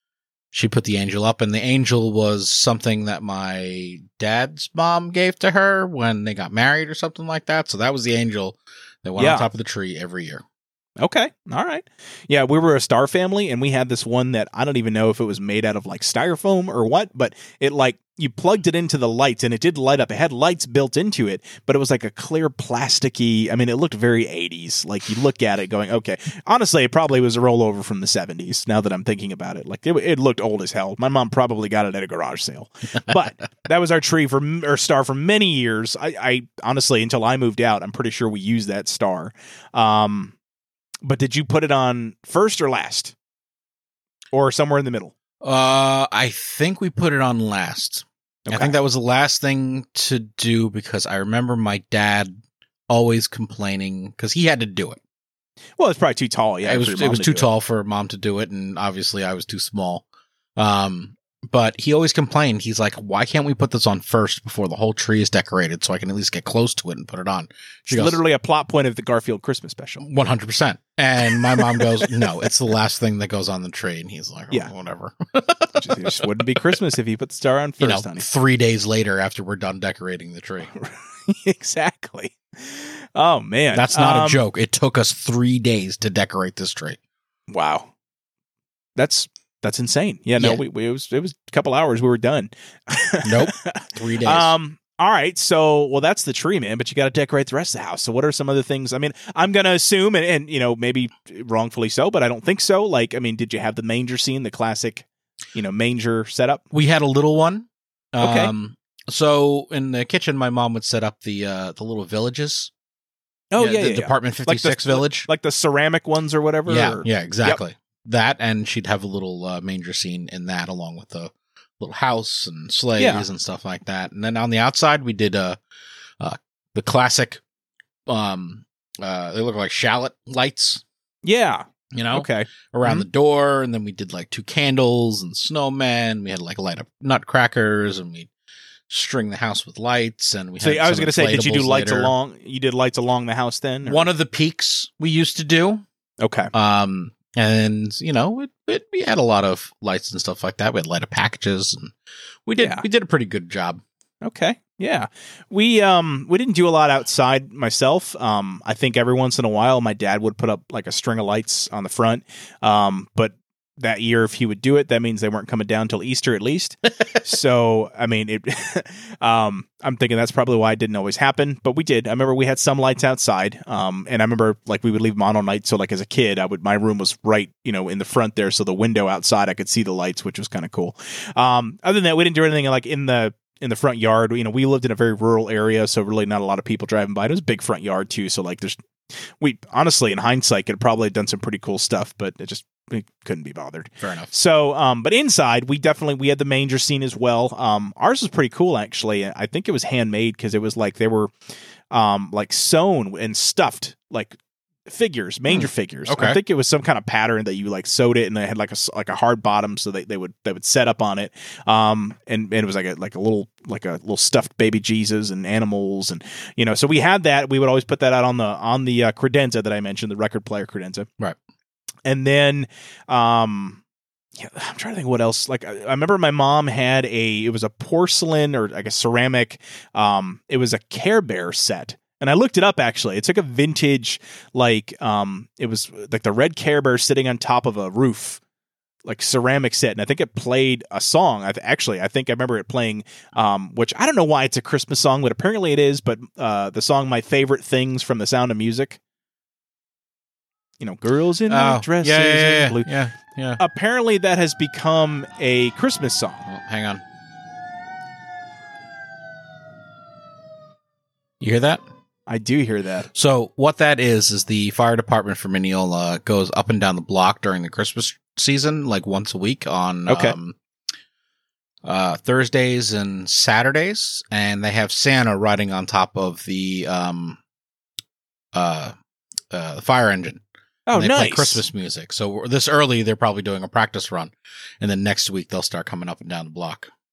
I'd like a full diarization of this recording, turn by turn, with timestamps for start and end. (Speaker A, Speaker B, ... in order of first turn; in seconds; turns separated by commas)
Speaker A: 0.5-10.4, Speaker B: 9.2-9.5, Speaker B: 11.0-40.4, Speaker B: 41.0-43.1, Speaker B: 44.3-45.1, Speaker A: 45.4-52.3, Speaker B: 48.5-48.7, Speaker A: 52.9-55.0, Speaker B: 55.8-57.5, Speaker A: 56.6-60.0, Speaker A: 60.6-68.2, Speaker B: 67.9-70.0, Speaker A: 70.0-76.3, Speaker B: 71.6-72.1, Speaker B: 75.8-78.3, Speaker A: 77.8-80.7, Speaker B: 80.8-84.4, Speaker A: 83.7-87.0, Speaker B: 87.5-87.9, Speaker B: 89.0-106.6, Speaker A: 93.2-94.5, Speaker A: 106.7-112.7, Speaker B: 108.2-108.5, Speaker B: 113.5-117.6, Speaker A: 113.6-115.3, Speaker A: 116.7-125.6, Speaker B: 123.0-123.3, Speaker A: 126.2-127.4, Speaker A: 128.1-130.8, Speaker B: 131.2-133.1, Speaker A: 131.9-138.3, Speaker A: 138.9-142.1, Speaker B: 140.6-144.1, Speaker A: 143.9-145.8, Speaker B: 146.2-146.5, Speaker A: 146.5-151.9, Speaker A: 152.5-153.8, Speaker B: 152.6-152.8, Speaker B: 154.2-188.8, Speaker B: 189.4-201.3, Speaker A: 194.0-194.3, Speaker B: 201.9-221.1, Speaker A: 205.5-206.4, Speaker B: 222.1-223.8, Speaker B: 224.4-238.4, Speaker B: 239.1-249.0, Speaker B: 250.8-252.9, Speaker A: 251.5-253.6, Speaker B: 253.6-256.5, Speaker A: 256.5-257.0, Speaker A: 261.4-261.8, Speaker B: 262.3-263.1, Speaker A: 263.1-270.6, Speaker B: 270.1-270.4, Speaker A: 271.8-277.4, Speaker A: 278.5-278.9, Speaker A: 279.5-280.4, Speaker B: 280.9-281.6, Speaker A: 280.9-286.9